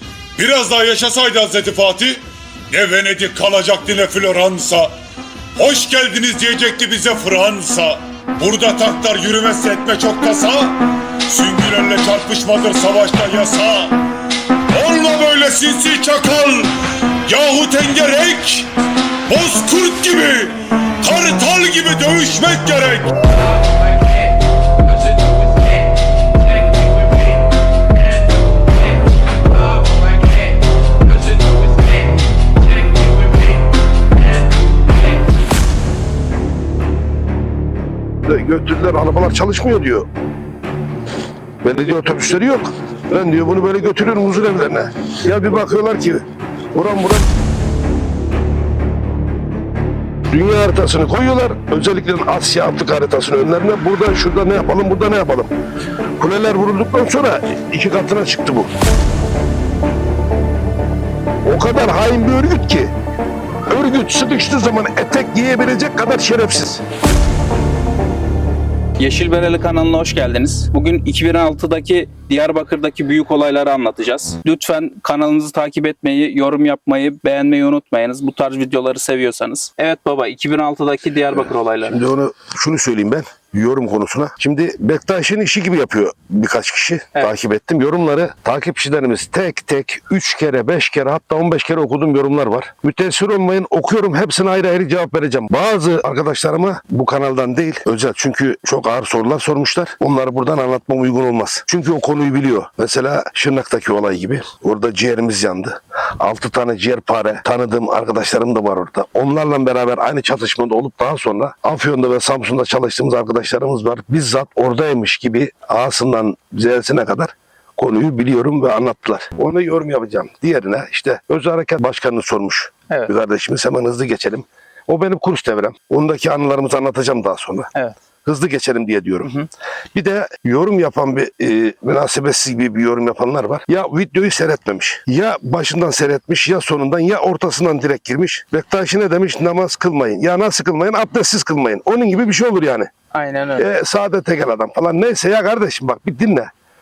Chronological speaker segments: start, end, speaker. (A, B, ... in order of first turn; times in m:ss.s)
0:00.4-0:04.9 A
0:05.6-0:14.0 A
0:14.7-0:16.7 A
0:17.2-0:18.7 A
0:19.3-0:23.1 A
0:38.2-0:40.1 B
0:41.6-0:47.3 B
0:50.3-0:55.5 B
0:56.2-0:58.7 B
1:01.4-1:02.9 B
1:03.7-1:06.8 B
1:09.0-1:22.0 C
1:21.8-2:07.7 B
2:08.2-2:09.3 B
2:09.9-2:22.9 B
2:23.1-2:23.7 C
2:23.6-2:26.5 B